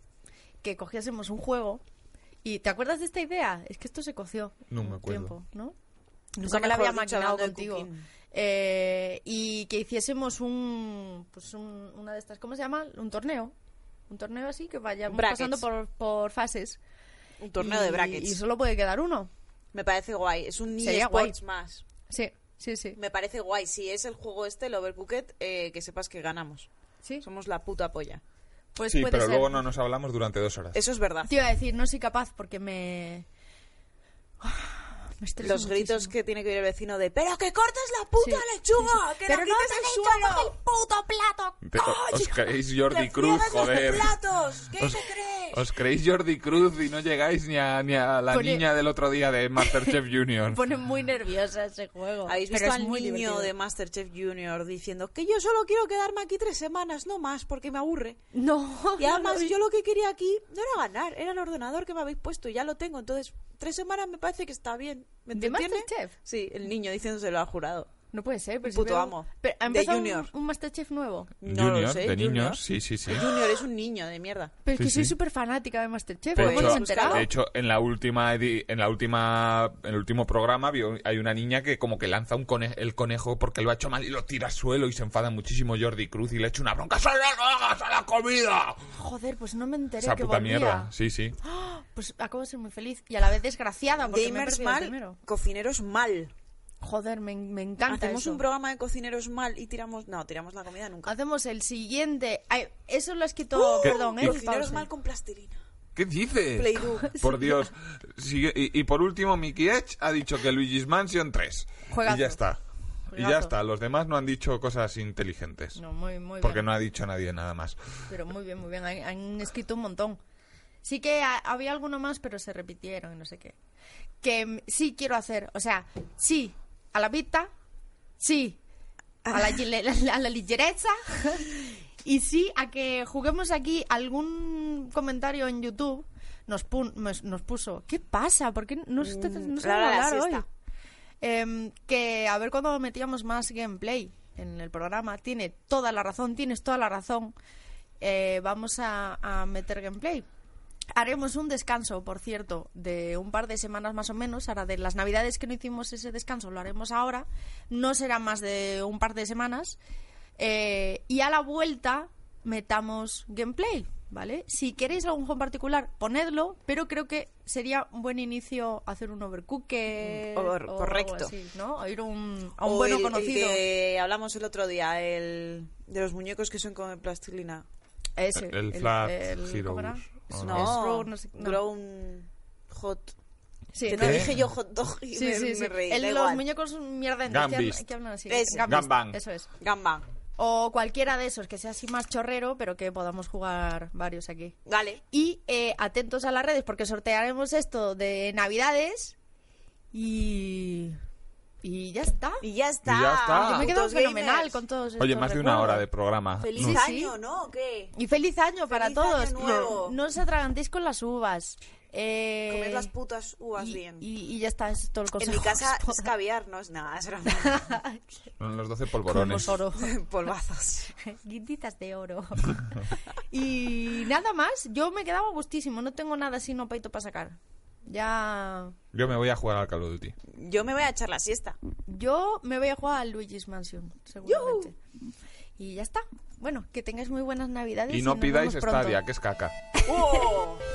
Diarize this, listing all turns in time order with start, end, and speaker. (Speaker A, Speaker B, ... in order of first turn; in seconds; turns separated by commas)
Speaker A: 0.6-1.8, Speaker A: 2.4-5.7, Speaker B: 4.7-5.3, Speaker A: 6.3-13.5, Speaker C: 6.4-8.0, Speaker A: 14.1-16.8, Speaker C: 15.1-15.6, Speaker C: 17.4-18.4, Speaker A: 17.6-19.3, Speaker C: 19.7-21.8, Speaker A: 20.8-21.4, Speaker A: 22.1-23.0, Speaker C: 23.0-26.7, Speaker C: 27.2-28.2, Speaker A: 28.8-29.6, Speaker B: 28.9-30.8, Speaker C: 30.7-31.3, Speaker A: 31.2-33.2, Speaker A: 34.4-36.1, Speaker C: 35.4-40.5, Speaker A: 38.2-42.3, Speaker B: 41.6-44.1, Speaker C: 42.9-45.6, Speaker B: 44.8-50.6, Speaker A: 48.3-48.7, Speaker A: 49.6-50.0, Speaker A: 50.5-53.5, Speaker C: 52.2-58.2, Speaker A: 58.3-59.5, Speaker C: 59.0-67.9, Speaker A: 65.3-66.1, Speaker A: 68.1-71.3, Speaker C: 68.7-70.3, Speaker C: 71.4-74.5, Speaker B: 71.4-73.3, Speaker A: 74.6-77.3, Speaker B: 74.7-75.1, Speaker B: 76.3-88.8, Speaker C: 76.3-77.3, Speaker A: 88.9-95.2, Speaker B: 90.0-91.3, Speaker C: 94.1-96.3, Speaker A: 96.8-98.4, Speaker C: 97.9-101.1, Speaker A: 101.0-104.9, Speaker C: 103.5-105.6, Speaker B: 103.8-104.4, Speaker B: 106.0-115.8, Speaker C: 106.5-107.1, Speaker A: 107.0-107.7, Speaker A: 111.9-112.4, Speaker A: 113.1-113.5, Speaker A: 115.8-116.7, Speaker B: 116.4-117.8, Speaker A: 118.1-120.2, Speaker A: 120.8-123.6, Speaker A: 124.2-127.5, Speaker A: 128.2-128.6, Speaker A: 129.3-140.4, Speaker C: 129.3-129.6, Speaker C: 139.0-140.4, Speaker A: 141.2-147.3, Speaker A: 148.0-150.2, Speaker A: 150.9-159.8, Speaker A: 160.4-173.6, Speaker C: 170.0-171.3, Speaker C: 172.6-177.7, Speaker A: 178.2-181.6, Speaker B: 178.3-180.8, Speaker C: 180.4-183.1, Speaker A: 183.7-184.3, Speaker C: 183.8-186.4, Speaker B: 184.0-184.4, Speaker A: 185.1-189.5, Speaker B: 187.3-187.8, Speaker C: 188.3-188.7, Speaker B: 188.7-189.2, Speaker C: 189.6-190.1, Speaker A: 190.4-194.6, Speaker C: 194.7-195.0, Speaker A: 195.1-199.2, Speaker A: 199.9-201.0, Speaker A: 201.6-202.4, Speaker C: 202.4-204.6, Speaker B: 202.8-203.7, Speaker A: 203.3-205.8, Speaker B: 205.0-206.8, Speaker C: 206.4-207.9, Speaker A: 206.6-207.1, Speaker A: 207.9-212.9, Speaker C: 208.7-210.0, Speaker C: 212.5-214.1, Speaker A: 213.6-216.1, Speaker C: 215.2-217.7, Speaker A: 217.3-218.0, Speaker B: 218.4-219.6, Speaker A: 219.0-219.9, Speaker C: 219.7-220.9, Speaker A: 220.9-228.8, Speaker B: 228.9-230.1, Speaker C: 230.3-231.6, Speaker A: 231.9-234.8, Speaker C: 234.2-234.7, Speaker A: 235.6-239.0, Speaker B: 237.9-239.5, Speaker A: 239.7-240.3, Speaker C: 239.8-240.6